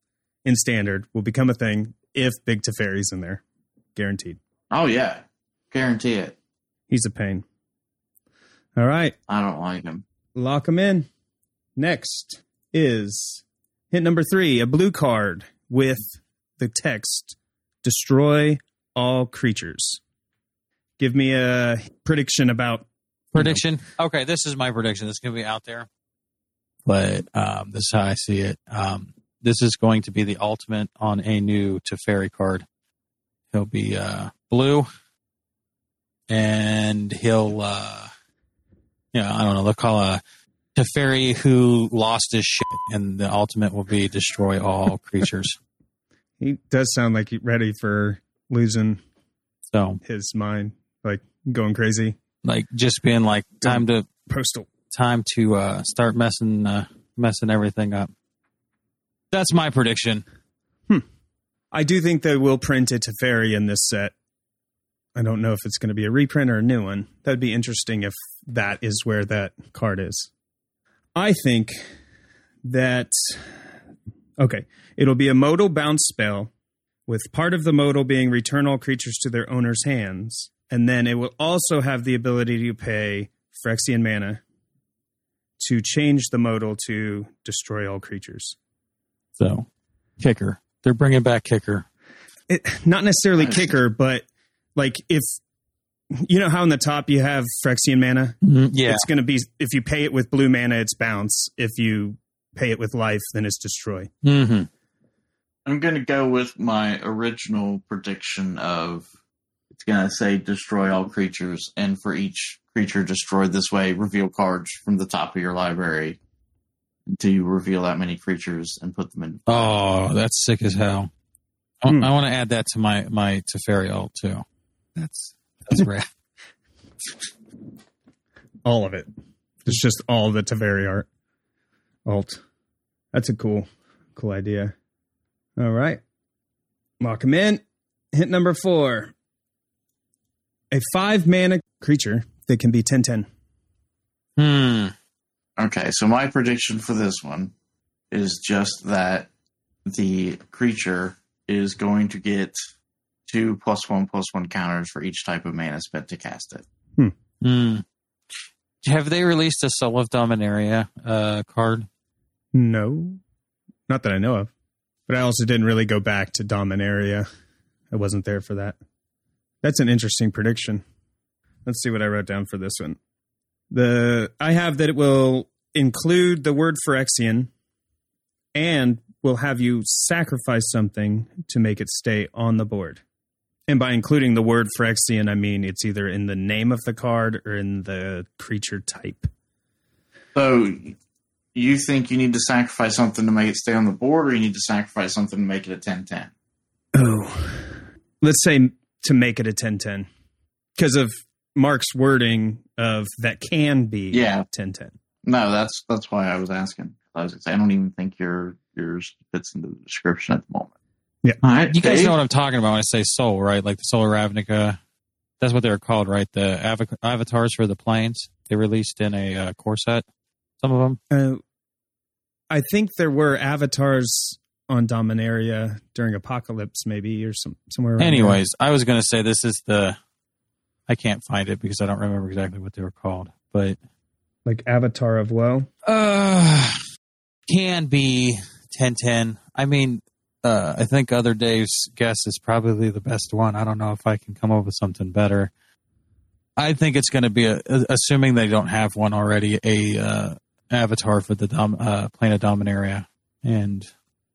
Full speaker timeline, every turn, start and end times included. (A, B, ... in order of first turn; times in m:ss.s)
0:00.4-0:03.4 A
0:03.9-0:04.4 A
0:04.7-0:06.4 B
0:06.9-0:07.4 A
0:08.8-0:09.1 A
0:09.3-0:10.0 B
0:10.3-0:11.1 A
0:11.8-0:20.0 A
0:21.0-0:23.6 A
0:23.3-0:25.9 C
0:26.8-0:32.6 C
0:33.5-0:34.9 C
0:36.3-0:38.1 C
0:39.1-0:40.2 C
0:40.8-0:45.6 C
0:46.4-0:49.0 A
0:49.7-0:50.0 C
0:50.0-0:52.2 A
0:52.4-0:54.0 C
0:53.6-0:54.7 A
0:54.9-0:58.1 C
0:59.3-1:00.2 C
1:01.7-1:04.1 A
1:05.2-1:10.3 A
1:11.2-1:11.8 A
1:12.6-1:13.5 A
1:14.4-1:16.5 A
1:17.1-1:24.4 A
1:25.6-1:28.6 A
1:29.4-1:29.6 C
1:30.2-1:31.8 C
1:32.5-1:35.3 A
1:33.4-1:33.7 B
1:36.1-1:44.1 A
1:38.4-1:39.0 C
1:44.2-1:44.7 C
1:45.6-1:49.1 B
1:49.7-1:56.2 B
1:57.0-1:59.7 B
1:59.5-2:01.1 C
2:01.8-2:04.4 C
2:05.0-2:06.1 C
2:08.6-2:09.1 A
2:09.6-2:11.1 A
2:12.0-2:12.4 A
2:13.1-2:14.7 A
2:15.6-2:16.0 A
2:17.0-2:17.6 A
2:18.1-2:19.1 A
2:20.7-2:23.3 A
2:24.4-2:24.9 C
2:25.6-2:27.5 B
2:28.1-2:29.3 B
2:29.8-2:32.6 B
2:33.3-2:36.6 B
2:37.4-2:37.8 C
2:38.8-2:41.9 C
2:42.5-2:43.2 A
2:43.9-2:44.5 A
2:45.1-2:47.2 A
2:47.9-2:48.8 A
2:49.6-2:50.8 A
2:51.6-2:53.0 A
2:53.7-2:57.5 A
2:58.5-3:03.0 A
3:03.7-3:09.3 A
3:10.3-3:11.0 B
3:11.5-3:16.3 B
3:17.0-3:20.1 A
3:20.8-3:24.9 A
3:24.1-3:24.4 B
3:25.2-3:30.7 B
3:31.4-3:32.2 B
3:31.7-3:34.8 C
3:35.4-3:40.0 C
3:40.6-3:41.0 C
3:41.1-3:41.4 A
3:42.5-3:48.4 A
3:48.0-3:50.0 C
3:50.9-3:53.8 C
3:54.4-3:55.7 A
3:55.8-3:56.8 C
3:57.5-4:05.5 C
4:06.6-4:13.9 C